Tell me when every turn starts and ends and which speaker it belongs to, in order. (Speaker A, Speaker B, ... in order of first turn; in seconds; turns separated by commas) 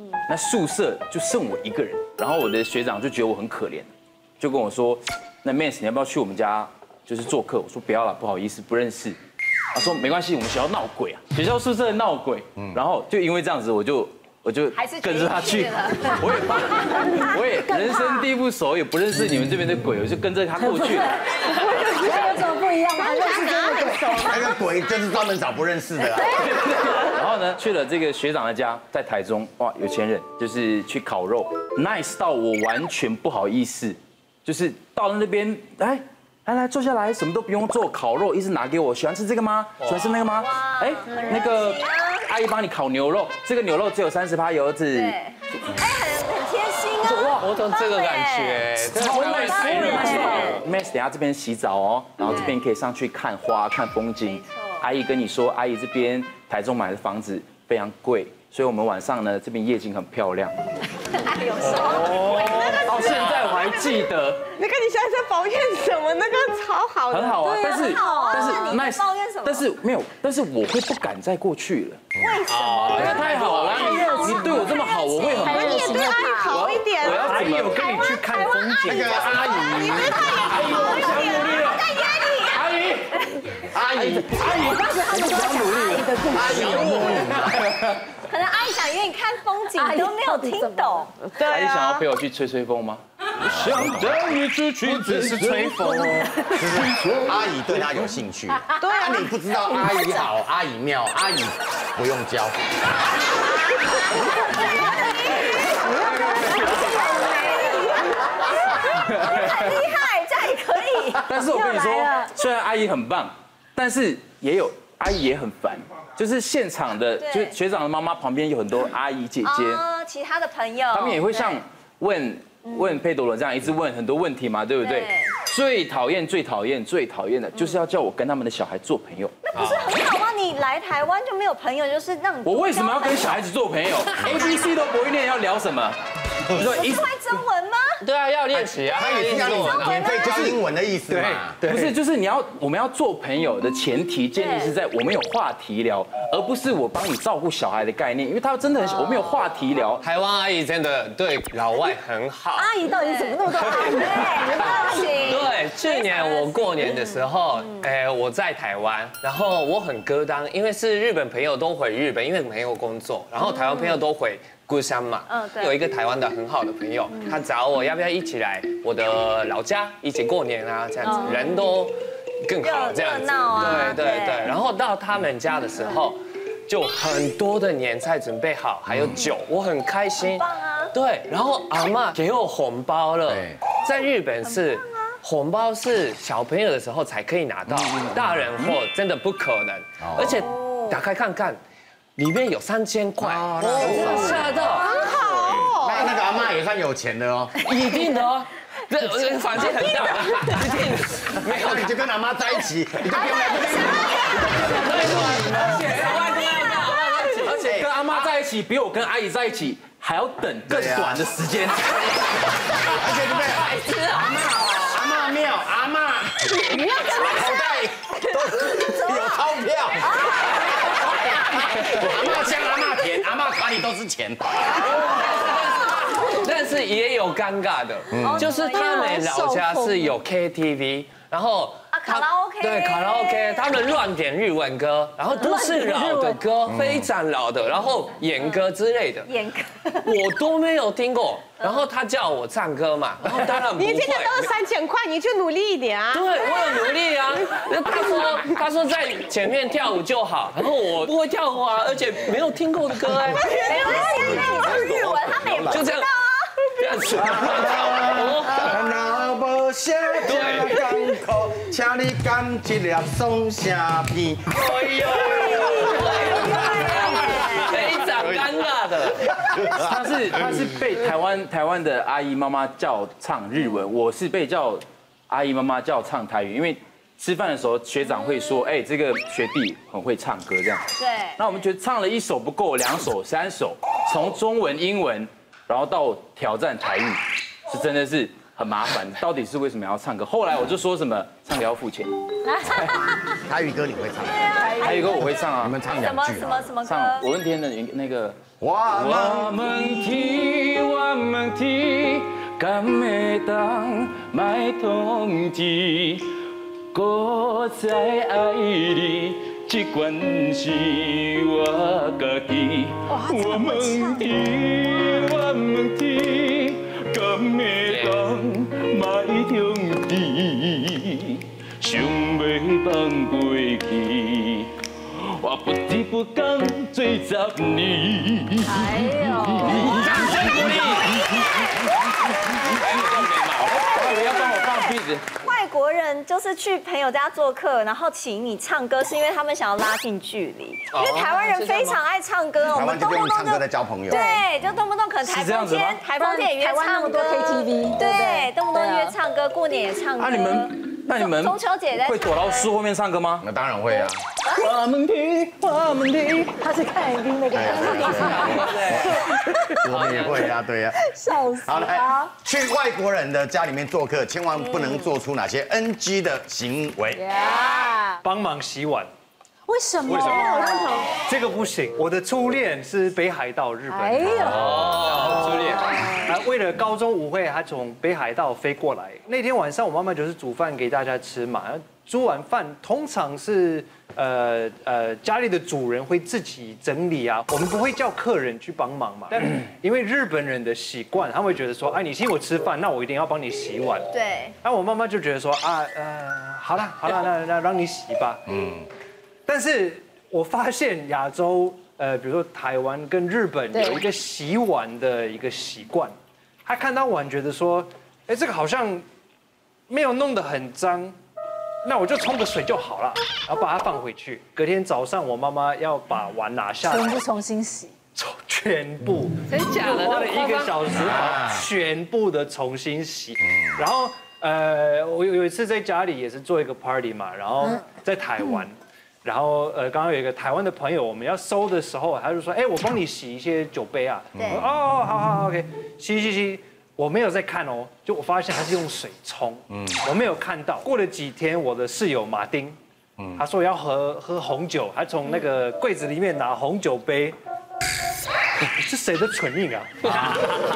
Speaker A: 0.3-9.2, Speaker A: 9.7-22.1, Speaker B: 12.6-12.8, Speaker C: 14.7-16.1, Speaker D: 16.9-18.3, Speaker D: 20.6-24.3, Speaker C: 23.0-24.4, Speaker E: 23.8-24.2, Speaker B: 24.1-26.4, Speaker A: 26.2-45.1, Speaker F: 39.8-40.3, Speaker C: 40.4-42.2, Speaker C: 44.9-48.8, Speaker F: 47.0-50.5, Speaker A: 48.9-60.5, Speaker D: 49.1-50.6, Speaker C: 49.3-50.6, Speaker C: 52.2-52.5, Speaker C: 54.2-54.8, Speaker C: 61.2-64.0, Speaker E: 61.9-62.8, Speaker F: 62.5-64.4, Speaker E: 63.8-64.1, Speaker G: 64.5-67.7, Speaker A: 67.1-72.0, Speaker D: 67.5-68.5, Speaker C: 67.6-69.7, Speaker B: 72.2-72.5, Speaker C: 72.2-76.2, Speaker F: 72.5-73.9, Speaker A: 72.9-75.9, Speaker D: 73.8-76.7, Speaker G: 75.4-77.4, Speaker A: 76.5-77.9, Speaker E: 77.0-79.6, Speaker C: 77.8-82.7, Speaker B: 78.8-80.7, Speaker G: 79.5-81.6, Speaker A: 80.4-81.9, Speaker A: 82.5-83.2, Speaker B: 83.7-84.4, Speaker A: 83.9-88.0, Speaker D: 84.5-87.3, Speaker B: 86.3-87.7, Speaker C: 88.3-91.3, Speaker D: 89.8-91.4, Speaker A: 91.4-97.3, Speaker G: 91.5-92.0, Speaker B: 93.5-94.2, Speaker E: 94.8-96.5, Speaker B: 96.5-102.5, Speaker D: 98.8-99.0, Speaker G: 98.8-99.2, Speaker D: 99.7-100.2, Speaker C: 104.5-106.0, Speaker D: 105.8-108.0, Speaker C: 106.6-111.3, Speaker A: 109.0-109.8, Speaker A: 111.3-119.8, Speaker D: 111.3-112.3, Speaker C: 117.2-117.5, Speaker C: 119.4-121.6, Speaker A: 120.9-129.5, Speaker C: 122.7-123.0, Speaker C: 124.8-125.3, Speaker F: 129.5-130.0, Speaker C: 129.6-133.4, Speaker A: 132.4-136.0, Speaker A: 136.5-137.1, Speaker C: 136.6-138.0, Speaker F: 138.0-140.6, Speaker B: 138.6-141.6, Speaker C: 139.7-140.5, Speaker E: 141.1-142.0, Speaker A: 141.7-150.0, Speaker C: 144.4-144.7, Speaker F: 150.0-152.7, Speaker D: 152.6-155.1, Speaker C: 153.0-157.9, Speaker F: 153.6-191.6, Speaker C: 163.5-164.0, Speaker C: 165.3-165.8, Speaker C: 167.1-167.4, Speaker C: 171.0-171.7, Speaker C: 172.6-174.6, Speaker B: 178.9-179.3, Speaker C: 180.2-180.9, Speaker B: 183.3-183.6, Speaker B: 187.7-188.4, Speaker B: 190.0-190.5, Speaker F: 192.2-194.9, Speaker B: 193.2-194.7, Speaker G: 194.9-196.1, Speaker B: 195.5-197.6, Speaker F: 197.6-201.9, Speaker B: 201.4-205.4, Speaker D: 203.3-203.8, Speaker A: 204.4-212.0, Speaker F: 204.8-207.5, Speaker B: 207.6-207.9, Speaker B: 210.7-211.3, Speaker B: 212.9-225.2, Speaker C: 216.7-219.5, Speaker C: 220.0-222.1, Speaker F: 224.9-239.3, Speaker B: 228.1-228.5, Speaker C: 228.2-230.1, Speaker C: 231.9-233.7, Speaker D: 235.3-236.4, Speaker B: 236.7-237.1, Speaker C: 238.4-238.7, Speaker C: 239.2-240.2, Speaker F: 240.0-244.5, Speaker G: 243.6-246.8, Speaker F: 246.1-253.8, Speaker B: 253.1-255.8, Speaker C: 253.4-256.5, Speaker F: 255.7-256.1, Speaker F: 256.8-258.9, Speaker B: 257.2-264.7, Speaker F: 260.2-260.9, Speaker F: 264.5-269.3, Speaker C: 265.1-268.0, Speaker A: 266.9-267.9, Speaker B: 268.2-268.5, Speaker B: 269.1-270.0, Speaker A: 269.7-280.9, Speaker C: 281.0-281.4, Speaker A: 281.4-292.1, Speaker D: 292.5-292.8, Speaker B: 293.4-294.7, Speaker C: 294.6-295.2, Speaker D: 294.6-295.0, Speaker A: 294.8-295.8, Speaker B: 295.6-296.7, Speaker C: 295.9-297.3, Speaker A: 296.8-298.4, Speaker B: 298.6-299.5, Speaker A: 298.9-306.3, Speaker A: 306.9-335.3, Speaker D: 313.1-315.3, Speaker F: 317.8-318.3, Speaker D: 328.7-329.8, Speaker F: 329.8-331.1, Speaker C: 333.8-352.7, Speaker F: 340.9-342.0, Speaker B: 342.7-344.2, Speaker D: 344.1-344.5, Speaker A: 345.2-346.0, Speaker D: 346.2-349.2, Speaker A: 350.2-353.4, Speaker B: 353.4-354.2, Speaker A: 354.4-356.6, Speaker D: 356.6-358.8, Speaker B: 357.5-361.0, Speaker F: 358.1-359.1, Speaker A: 358.2-358.7, Speaker F: 359.9-360.4, Speaker D: 361.0-362.3, Speaker B: 361.6-367.3, Speaker D: 367.2-368.2, Speaker E: 368.2-369.1, Speaker D: 369.7-371.1, Speaker G: 370.1-371.1, Speaker E: 371.2-394.1, Speaker D: 373.9-374.7, Speaker F: 374.6-375.8, Speaker D: 375.5-376.3, Speaker C: 394.1-394.5, Speaker E: 394.6-398.5, Speaker B: 398.5-398.9, Speaker E: 399.5-406.1, Speaker D: 403.7-404.0, Speaker E: 406.7-409.0, Speaker E: 409.9-411.1, Speaker E: 411.9-417.3, Speaker D: 416.9-418.0, Speaker E: 418.1-442.8, Speaker F: 419.5-421.0, Speaker B: 421.1-421.6, Speaker B: 434.4-434.6, Speaker B: 439.7-440.0, Speaker B: 443.2-443.4, Speaker E: 443.4-447.4, Speaker E: 448.8-450.4